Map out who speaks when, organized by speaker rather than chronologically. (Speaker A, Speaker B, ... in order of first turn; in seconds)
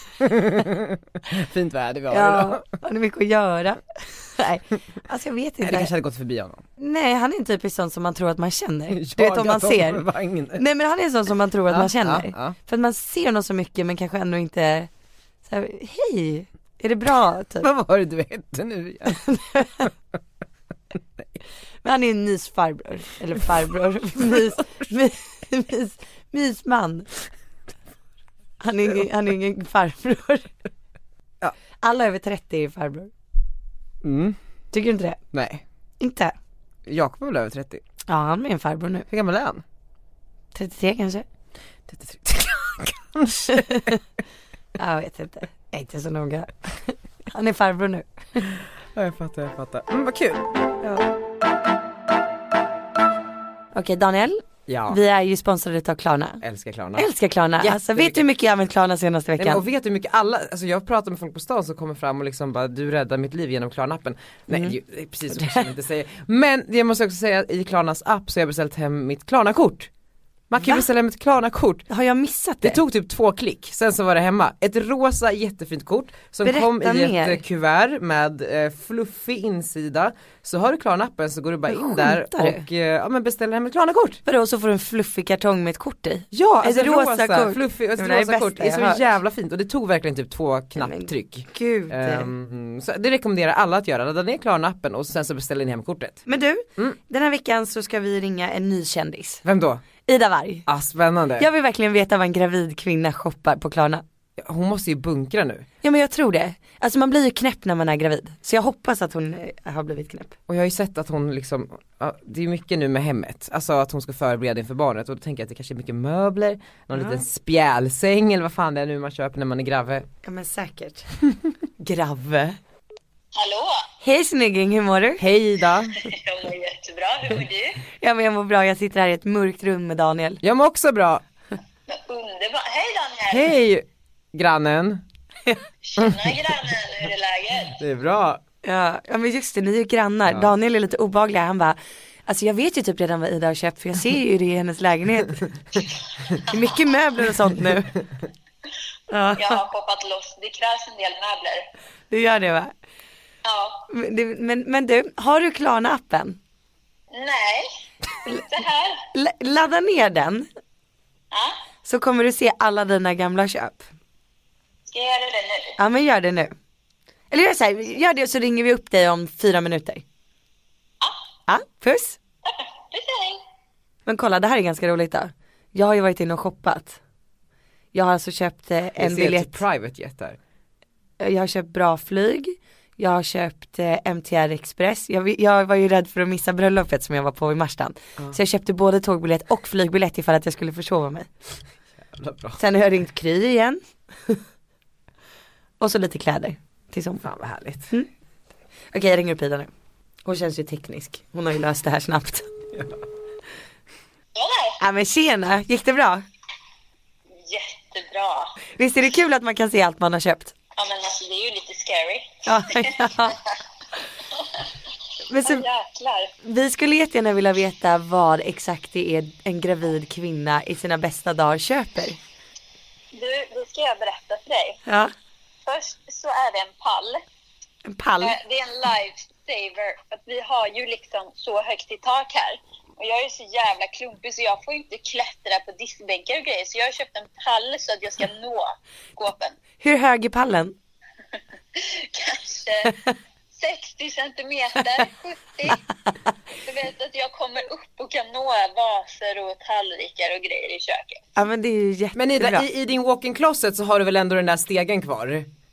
Speaker A: 0.2-2.6, 5.6-6.6, 8.9-10.6, 11.7-12.6, 17.6-19.2, 34.0-34.4, 35.3-35.6, 36.9-37.8, 39.1-39.6, 41.9-43.9, 48.6-50.5, 54.7-55.0, 56.4-58.2, 59.4-69.9, 70.5-71.8, 72.6-84.2, 86.3-96.2, 99.4-99.8, 100.7-101.5, 104.4-105.7, 110.5-120.1, 125.2-126.0, 130.4-131.2, 133.3-135.0, 136.0-136.6, 137.7-138.4, 179.0-180.4, 192.0-192.6, 197.2-197.9, 252.2-255.5
Speaker B: 2.1-5.9, 6.8-10.1, 10.6-14.9, 15.4-17.7, 19.1-19.9, 21.8-27.1, 28.6-30.5, 31.8-33.1, 34.7-35.2, 36.0-36.3, 38.1-39.1, 40.5-41.2, 43.5-44.0, 44.8-48.4, 53.7-56.4, 57.0-59.6, 65.3-65.7, 71.9-72.8, 76.4-77.4, 81.7-82.7, 84.2-89.1, 90.8-92.3, 96.3-99.4, 100.0-100.7, 101.4-104.0, 105.8-110.3, 116.9-117.2, 120.2-121.0, 121.8-122.6, 124.0-125.2, 128.0-130.4, 138.6-145.4, 146.4-148.0, 149.1-149.6, 152.1-152.7, 153.9-156.4, 159.1-160.5, 161.8-163.9, 165.8-166.5, 167.3-170.0, 171.5-172.2, 174.1-177.0, 177.9-179.6, 181.2-191.3, 192.6-194.4, 195.8-197.2, 198.9-199.7, 200.2-202.5, 204.8-206.2, 208.8-210.5, 212.4-213.4, 215.3-215.6, 216.4-222.2, 224.8-225.1, 227.8-228.3, 239.8-240.7, 242.9-243.1, 251.3-252.7
Speaker C: 123.3-123.8, 126.0-127.8, 131.9-133.6, 135.8-137.8, 149.3-151.7, 153.4-153.8, 157.1-157.7, 158.3-159.0, 161.3-161.6, 164.9-165.8, 172.5-173.4, 204.3-204.8, 207.4-208.5, 210.8-213.4, 215.4-216.3, 223.1-224.8, 225.7-227.2, 228.2-239.6, 241.8-242.9, 243.5-245.8, 246.6-251.3